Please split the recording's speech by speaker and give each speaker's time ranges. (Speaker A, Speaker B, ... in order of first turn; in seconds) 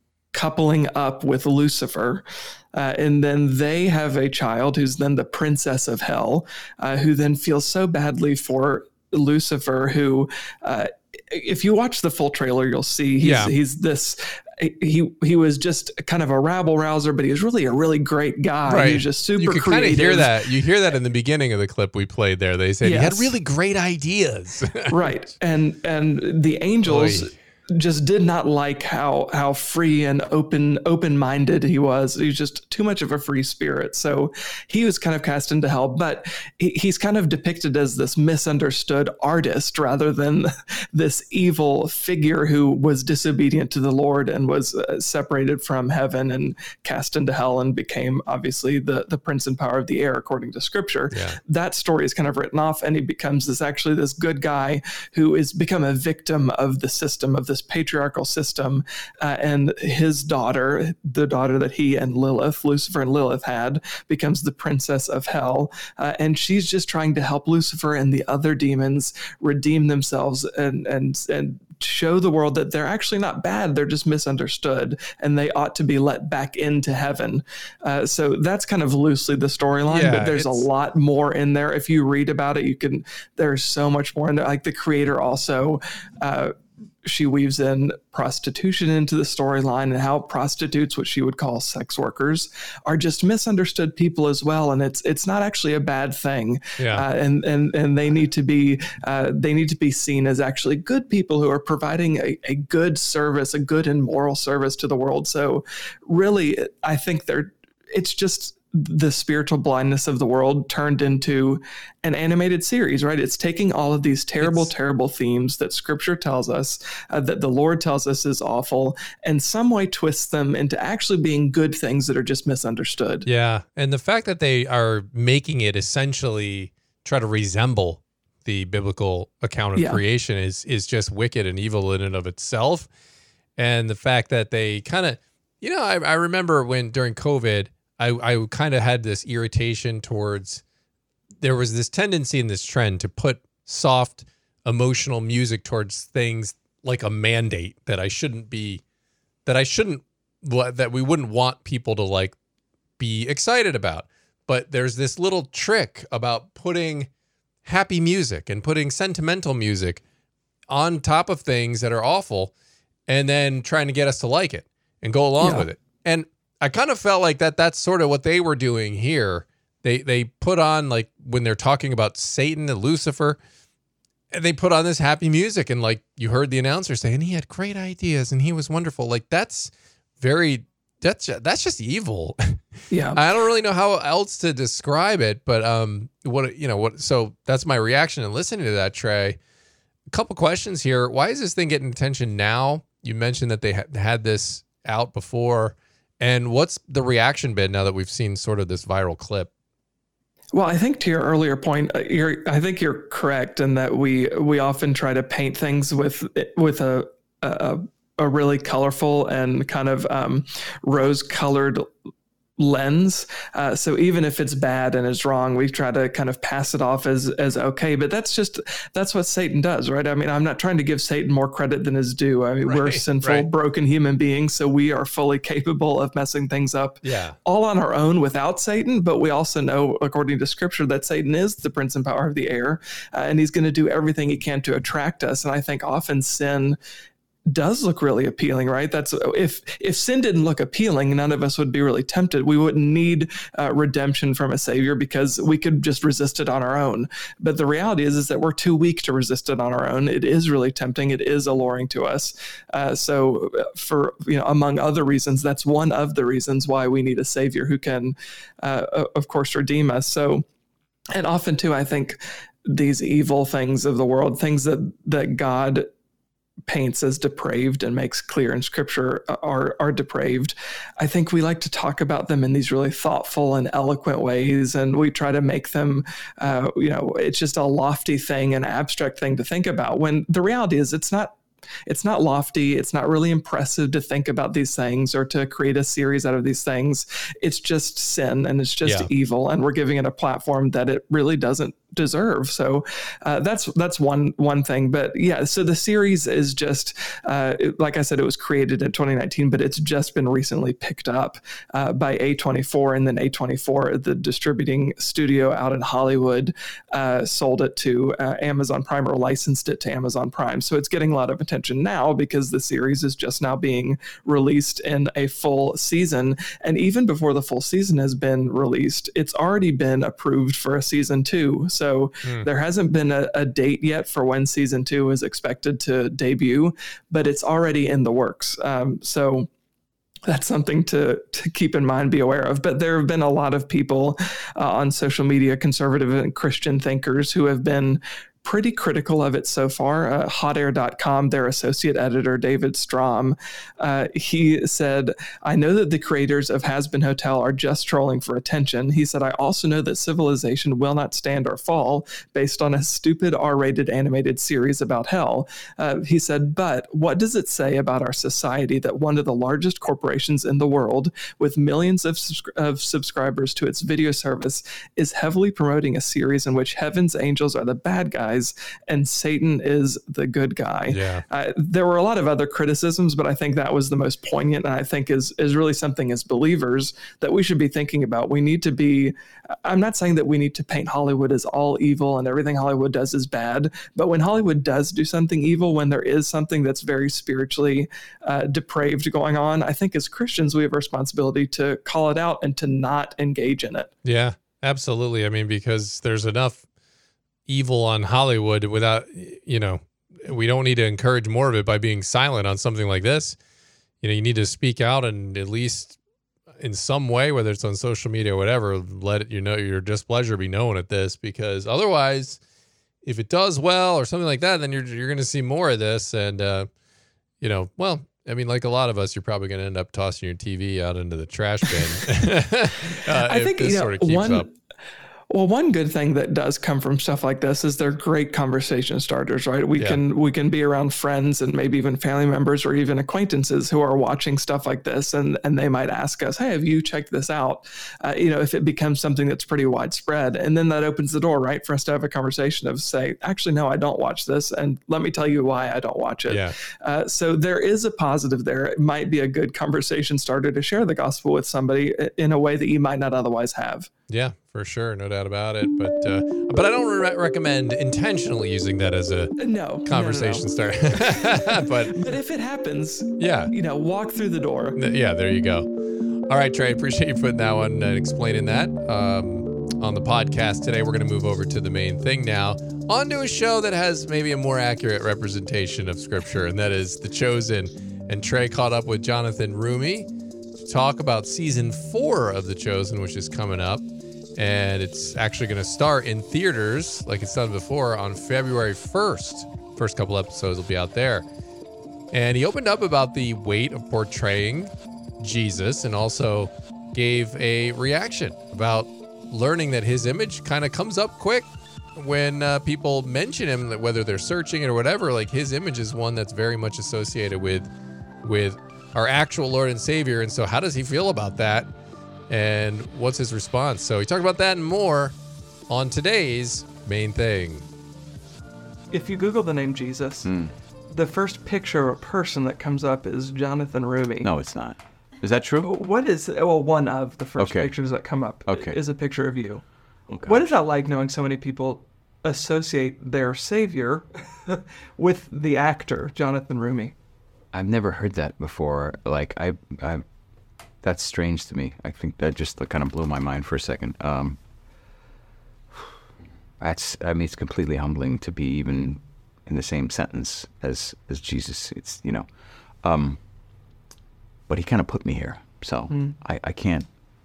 Speaker A: 0.3-20.4, 22.8-23.3, 24.9-123.3, 129.8-130.0, 165.4-165.7, 182.9-183.2, 200.5-211.9, 212.6-236.8, 237.5-260.4, 261.1-265.9, 266.7-329.5, 330.3-393.9, 423.1-424.5, 425.3-453.9, 459.4-464.8, 518.9-520.3, 520.9-524.3, 525.6-529.6, 530.2-536.9, 555.9-556.2
Speaker B: 13.2-13.5, 18.7-25.1, 26.9-27.3, 51.1-51.4, 79.9-80.7, 96.8-97.0, 114.4-114.7, 123.3-132.9, 133.6-140.6, 141.4-148.8, 149.5-152.4, 153.0-157.1, 157.7-160.0, 160.7-162.5, 163.1-173.4, 174.3-189.4, 190.1-199.5, 222.7-223.5, 227.0-227.4, 288.9-289.1, 370.9-371.2, 394.0-396.6, 397.5-403.4, 404.0-406.0, 406.6-412.4, 413.0-416.7, 417.4-424.5, 446.3-446.6, 454.1-459.3, 459.9-462.1, 463.2-463.5, 464.8-465.7, 466.3-480.1, 480.6-483.9, 484.4-491.2, 492.1-507.7, 508.2-511.7, 512.3-515.1, 515.7-517.7
Speaker C: 520.2-520.5, 524.2-525.7, 527.4-527.7, 528.5-528.8, 530.1-530.4, 537.5-540.0, 540.8-544.4, 546.6-552.3, 552.8-553.2, 554.5-556.9